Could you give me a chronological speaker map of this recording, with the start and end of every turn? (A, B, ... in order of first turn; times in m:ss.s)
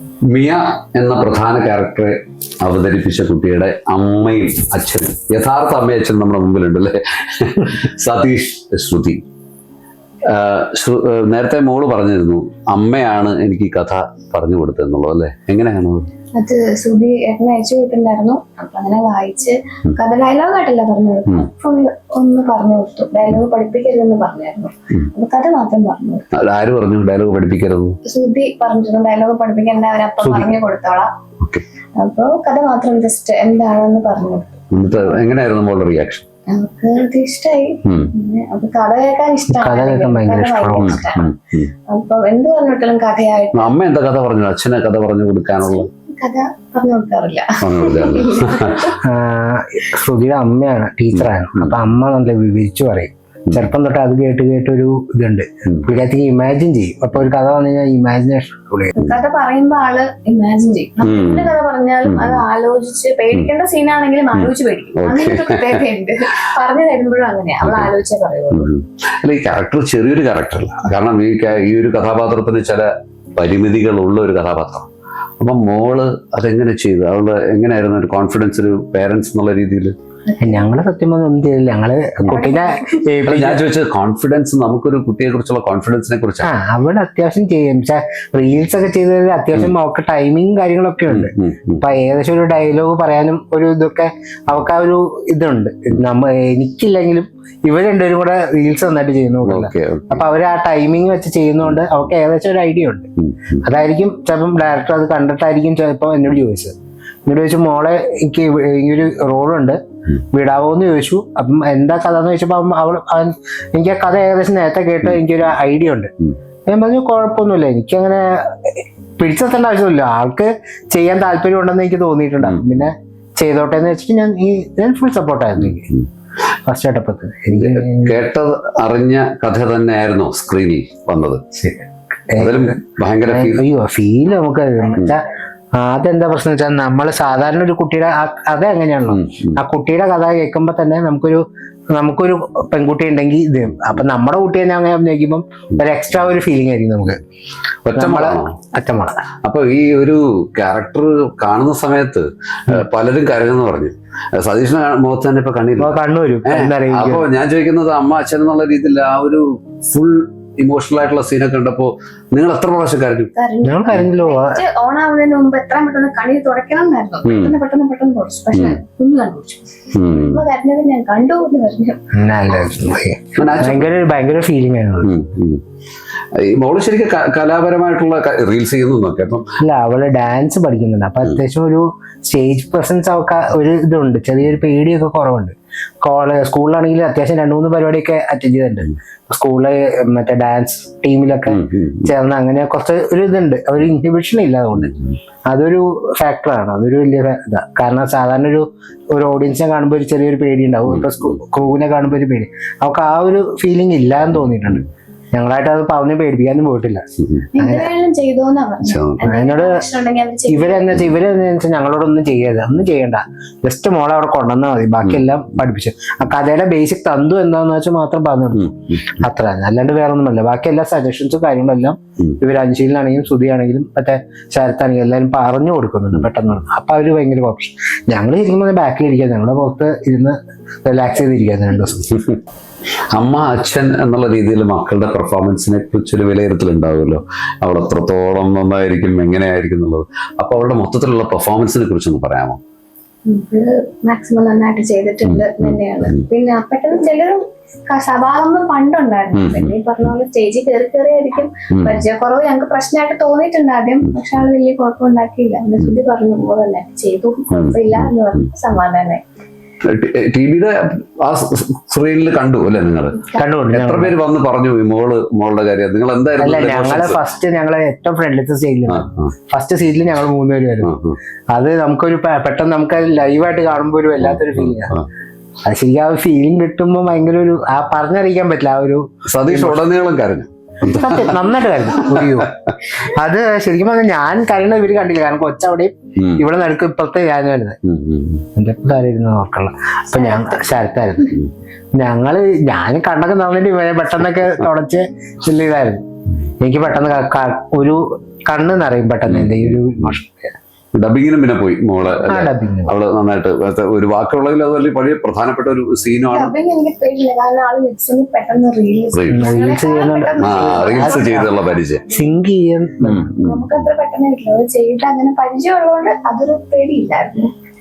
0:00.3-0:09.2 A
0:10.3-0:16.0 A
0:16.4-0:26.2 B
0:26.4-0:28.0 A
0:28.1-0:31.1 B
0:30.2-0:30.5 C
0:32.0-0:34.6 B
0:34.7-0:36.2 A
0:36.5-0:41.3 B
0:37.8-0:38.1 A
0:39.5-0:41.0 C
0:40.8-0:41.7 A
0:41.9-0:43.7 B
0:43.5-0:45.9 A
0:45.6-0:48.9 B
0:47.6-0:48.9 A
0:49.1-0:58.9 C
0:51.1-0:51.8 A
0:59.0-1:08.7 B
1:01.0-1:02.4 A
1:04.3-1:05.8 A
1:07.6-1:14.9 A
1:15.4-1:19.9 A
1:20.3-1:20.7 B
1:20.4-1:23.6 C
1:22.4-1:23.0 B
1:23.2-1:26.5 A
1:26.4-1:43.1 C
1:31.1-1:31.8 A
1:39.4-1:40.2 A
1:41.6-1:42.1 A
1:43.2-1:43.6 A
1:43.6-1:46.7 C
1:47.2-1:49.8 C
1:50.3-1:56.1 C
1:56.7-2:05.9 C
2:02.4-2:02.9 A
2:05.6-2:06.0 A
2:06.7-2:08.2 C
2:07.5-2:11.4 A
2:11.6-2:15.2 C
2:12.4-2:13.6 A
2:14.4-2:14.9 B
2:15.8-2:21.4 C
2:19.1-2:19.6 A
2:22.0-2:27.2 C
2:27.8-2:28.5 A
2:27.9-2:29.2 C
2:29.4-2:43.3 A
2:35.8-2:37.3 C
2:43.4-2:52.0 B
2:43.6-2:44.6 C
2:47.2-2:47.6 A
2:48.5-2:48.8 A
2:49.9-2:50.4 A
2:52.2-2:55.1 C
2:53.4-2:54.0 A
2:55.0-2:55.6 A
2:56.4-2:59.4 A
2:59.6-3:14.9 C
3:11.5-3:12.1 A
3:14.7-3:15.2 A
3:15.5-3:27.0 C
3:20.9-3:21.4 A
3:24.4-3:24.8 A
3:27.2-3:27.5 A
3:27.5-3:31.1 B
3:27.6-3:27.9 C
3:28.8-3:29.3 A
3:29.2-3:29.8 C
3:30.5-3:52.1 C
3:35.0-3:35.3 A
3:38.5-3:39.2 A
3:53.1-4:02.6 A
4:03.2-4:19.2 B
4:05.2-4:06.2 A
4:09.3-4:10.1 A
4:11.7-4:12.0 A
4:14.0-4:14.4 A
4:17.5-4:18.4 A
4:19.9-4:27.2 A
4:23.4-4:24.1 C
4:26.4-4:30.9 C
4:28.9-4:29.2 A
4:30.8-4:31.2 A
4:31.5-4:35.0 C
4:34.2-4:35.0 A
4:35.6-4:39.8 C
4:39.3-4:42.5 A
4:40.8-4:47.8 C
4:46.2-4:46.4 A
4:47.8-4:48.4 A
4:48.6-4:51.3 C
4:50.2-4:50.8 B
4:52.0-4:56.0 C
4:56.6-5:00.5 C
4:59.3-5:00.1 A
5:00.9-5:06.5 A
5:02.2-5:02.9 C
5:06.3-5:11.6 B
5:09.1-5:09.5 A
5:09.3-5:11.3 C
5:10.4-5:12.1 A
5:12.1-5:13.2 C
5:13.0-5:13.9 A
5:13.2-5:17.5 B